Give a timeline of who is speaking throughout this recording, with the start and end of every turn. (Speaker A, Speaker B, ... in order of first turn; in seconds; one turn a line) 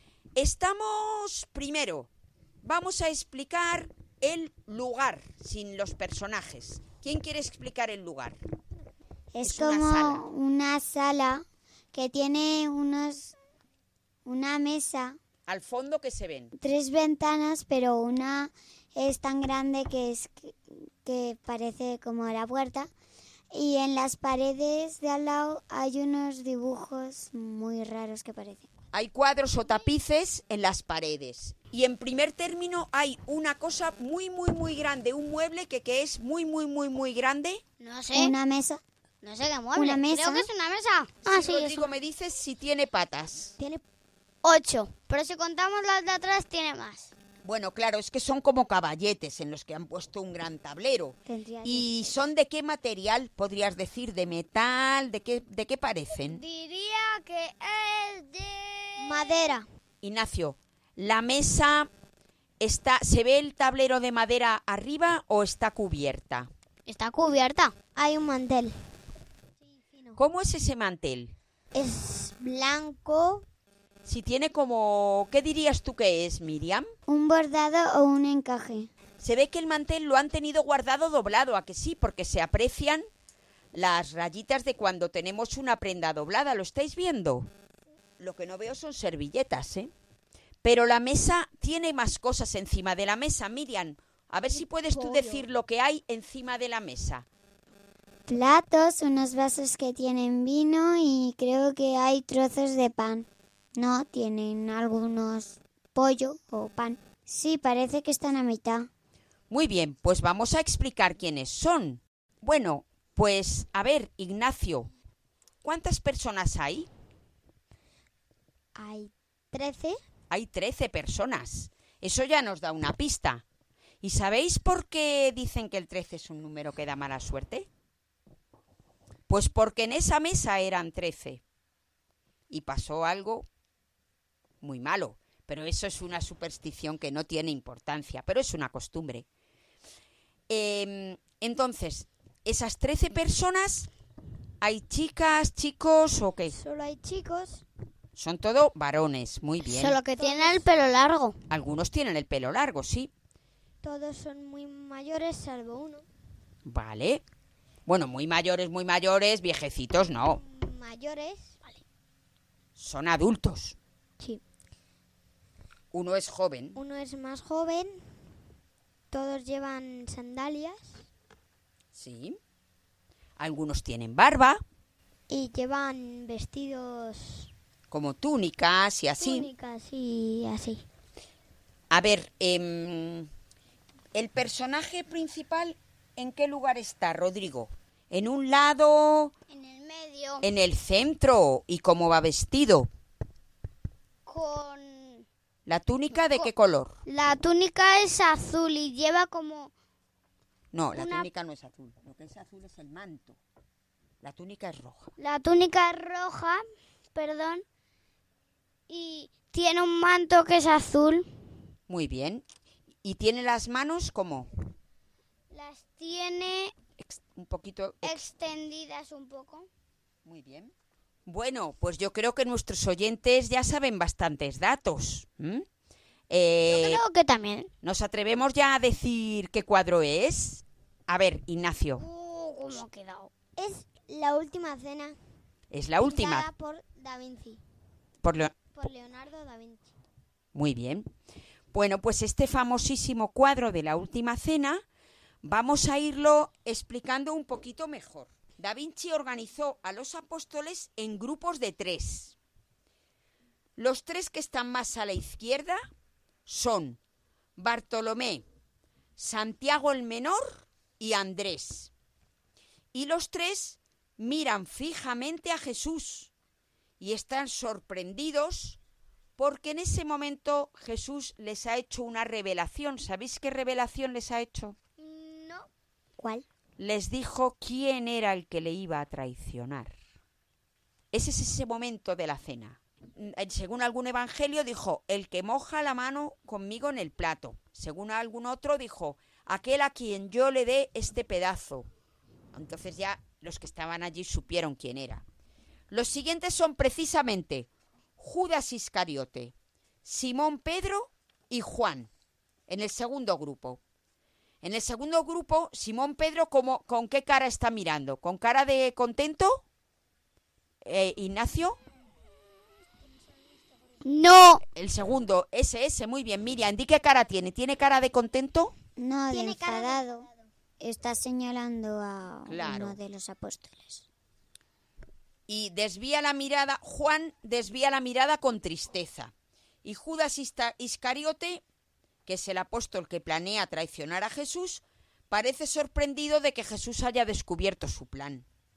Speaker A: 0.3-2.1
Speaker A: 2.6-8.4
Speaker B: 9.3-13.3
Speaker A: 9.4-10.2
Speaker B: 14.2-15.2
Speaker A: 15.5-16.5
Speaker B: 16.6-22.9
Speaker B: 23.5-28.7
Speaker A: 28.9-37.6
Speaker C: 37.8-38.3
Speaker B: 38.1-38.8
Speaker C: 39.2-41.9
Speaker B: 39.7-40.5
Speaker A: 41.2-43.5
Speaker C: 44.4-47.1
Speaker A: 47.4-56.4
Speaker B: 51.3-52.2
Speaker C: 56.3-59.5
Speaker D: 59.0-59.6
Speaker A: 60.0-61.9
Speaker A: 62.6-66.5
Speaker C: 66.8-67.7
Speaker D: 67.9-68.7
Speaker D: 69.7-70.2
Speaker A: 70.2-71.3
Speaker D: 71.7-73.4
Speaker A: 74.0-76.9
Speaker B: 77.1-78.9
Speaker A: 79.2-83.0
Speaker A: 83.7-87.5
Speaker A: 88.2-89.9
Speaker A: 90.6-97.3
Speaker B: 98.3-108.9
Speaker A: 109.5-114.9
Speaker A: 115.6-116.9
Speaker D: 118.8-120.0
Speaker A: 120.3-123.4
Speaker A: 124.0-127.7
Speaker A: 129.3-131.4
Speaker A: 132.5-133.4
Speaker A: 134.6-139.3
Speaker A: 140.5-143.9
Speaker A: 144.6-146.5
Speaker D: 146.5-147.6
Speaker A: 148.2-150.0
Speaker C: 149.6-151.3
Speaker D: 150.1-150.7
Speaker A: 151.5-153.1
Speaker D: 153.8-156.0
Speaker A: 156.7-157.2
Speaker A: 157.9-160.4
Speaker D: 160.2-161.6
Speaker A: 162.8-163.8
Speaker A: 165.9-166.8
Speaker D: 166.7-168.0
Speaker D: 169.1-171.1
Speaker A: 171.9-172.4
Speaker A: 173.4-174.6
Speaker D: 175.3-177.5
Speaker A: 177.9-179.5
Speaker D: 179.2-180.8
Speaker A: 181.9-183.3
Speaker A: 184.1-189.3
Speaker C: 189.5-190.5
Speaker A: 190.4-192.9
Speaker C: 194.2-195.2
Speaker A: 195.7-197.0
Speaker C: 197.1-199.7
Speaker A: 200.7-203.4
Speaker C: 200.9-201.3
Speaker A: 204.2-205.1
Speaker C: 205.2-206.6
Speaker C: 207.1-207.6
Speaker C: 208.9-211.3
Speaker A: 211.9-212.4
Speaker A: 213.0-214.5
Speaker C: 215.5-216.7
Speaker A: 217.0-218.2
Speaker C: 218.0-219.7
Speaker A: 220.2-220.7
Speaker A: 221.2-225.7
Speaker A: 226.3-227.0
Speaker C: 226.7-227.7
Speaker A: 227.8-232.0
Speaker C: 232.0-233.3
Speaker D: 233.6-235.2
Speaker A: 235.7-236.5
Speaker D: 236.0-237.6
Speaker A: 238.2-238.5
Speaker D: 238.7-239.9
Speaker A: 240.5-241.1
Speaker A: 241.7-244.8
Speaker A: 245.4-252.3
Speaker A: 253.8-255.8
Speaker A: 256.4-257.0
Speaker A: 257.6-258.4
Speaker A: 259.2-261.9
Speaker A: 262.9-266.3
Speaker A: 267.0-268.8
Speaker A: 269.4-274.8
Speaker C: 275.0-275.7
Speaker B: 276.2-276.4
Speaker A: 276.8-279.9
Speaker A: 281.1-291.9
Speaker A: 292.5-295.2
Speaker A: 295.9-302.1
Speaker A: 302.7-303.8
Speaker A: 304.6-309.6
Speaker A: 310.8-311.8
Speaker C: 314.0-314.6
Speaker A: 314.7-318.7
Speaker B: 319.0-320.3
Speaker D: 319.3-320.3
Speaker B: 320.8-324.1
Speaker A: 322.5-323.0
Speaker A: 325.5-329.3
Speaker A: 329.8-331.6
Speaker A: 332.2-338.4